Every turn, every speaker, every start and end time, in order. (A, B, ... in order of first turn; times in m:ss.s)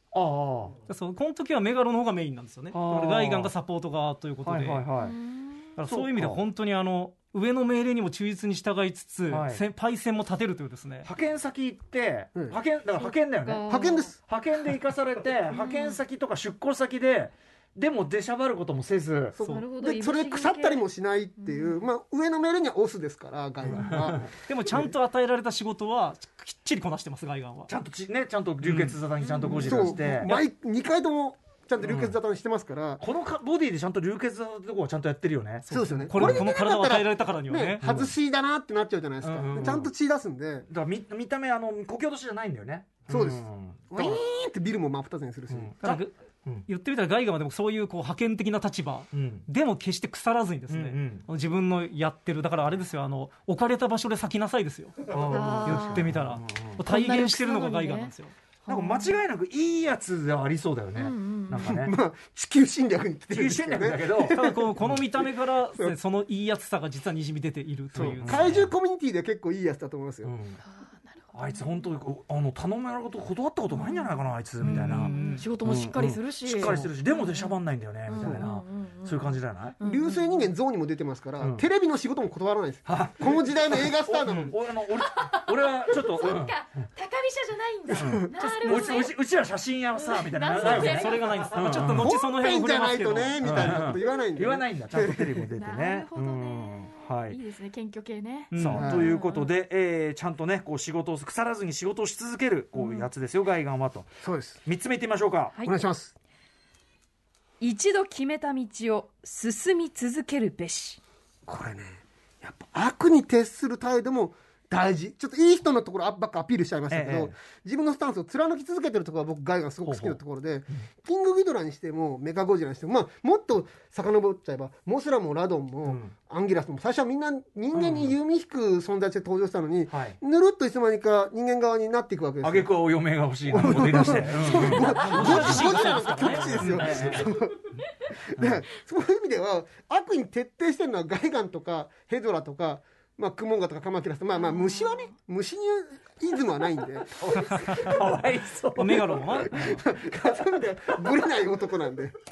0:00.1-0:00.8 A
0:00.9-0:04.8 B
0:02.7-0:03.5 A
0:04.4-0:05.2 A
0:05.0-0:05.7 C
0:05.8-0:11.1 B
0:05.9-0:06.4 A
0:09.3-0:09.6 A
0:11.0-0:19.4 A
0:13.0-0:14.1 C
0:13.7-0:14.2 D
0:15.5-0:16.0 C
0:19.4-0:24.2 D
0:19.4-0:20.8 C
0:21.4-0:21.8 C
0:23.6-0:24.3 A
0:24.5-0:27.7 B
0:27.7-0:30.4 A
0:28.6-0:29.7 B
0:29.2-0:29.8 C
0:29.6-0:33.0 D
0:31.8-0:32.2 A
0:33.0-0:36.4 A
0:35.7-0:37.8 B
0:35.7-0:40.7 D
0:37.8-0:38.1 A
0:39.2-0:39.9 A
0:40.7-0:44.2 A
0:43.1-0:45.7 D
0:45.5-0:46.7 A
0:45.8-0:46.1 B
0:46.7-0:58.3 B
0:49.1-0:49.5 A
0:50.7-0:51.3 A
0:55.1-0:56.8 A
0:55.3-0:56.1 C
0:56.8-0:58.1 C
0:58.7-0:59.2 C
0:58.7-1:01.9 A
1:01.0-1:01.7 C
1:01.6-1:04.8 D
1:03.3-1:05.0 A
1:04.3-1:08.5 B
1:08.0-1:10.3 D
1:08.0-1:08.7 A
1:10.2-1:10.6 A
1:10.6-1:11.9 C
1:11.3-1:15.1 A
1:13.7-1:17.6 C
1:14.6-1:15.5 B
1:15.6-1:19.8 A
1:18.1-1:20.5 C
1:18.2-1:18.4 D
1:19.8-1:24.6 D
1:22.9-1:26.8 A
1:25.0-1:29.2 C
1:27.9-1:28.3 D
1:28.0-1:32.1 A
1:28.4-1:28.9 B
1:30.0-1:31.7 C
1:30.6-1:33.8 B
1:32.0-1:35.5 D
1:33.4-1:37.4 A
1:35.6-1:39.5 C
1:38.5-1:38.9 B
1:38.6-1:45.6 A
1:38.8-1:39.2 D
1:42.8-1:43.1 C
1:44.2-1:44.6 D
1:45.6-1:46.1 D
1:47.6-1:51.0 E
1:51.5-2:12.7 D
1:56.9-1:57.3 A
1:59.8-2:00.2 A
2:05.9-2:06.1 A
2:07.7-2:08.2 A
2:09.9-2:10.2 A
2:12.4-2:17.3 A
2:13.5-2:17.7 D
2:14.8-2:17.0 B
2:18.2-2:28.1 D
2:18.4-2:18.6 A
2:24.4-2:25.1 C
2:27.2-2:29.2 A
2:27.4-2:27.7 B
2:28.8-2:29.8 B
2:29.1-2:32.2 D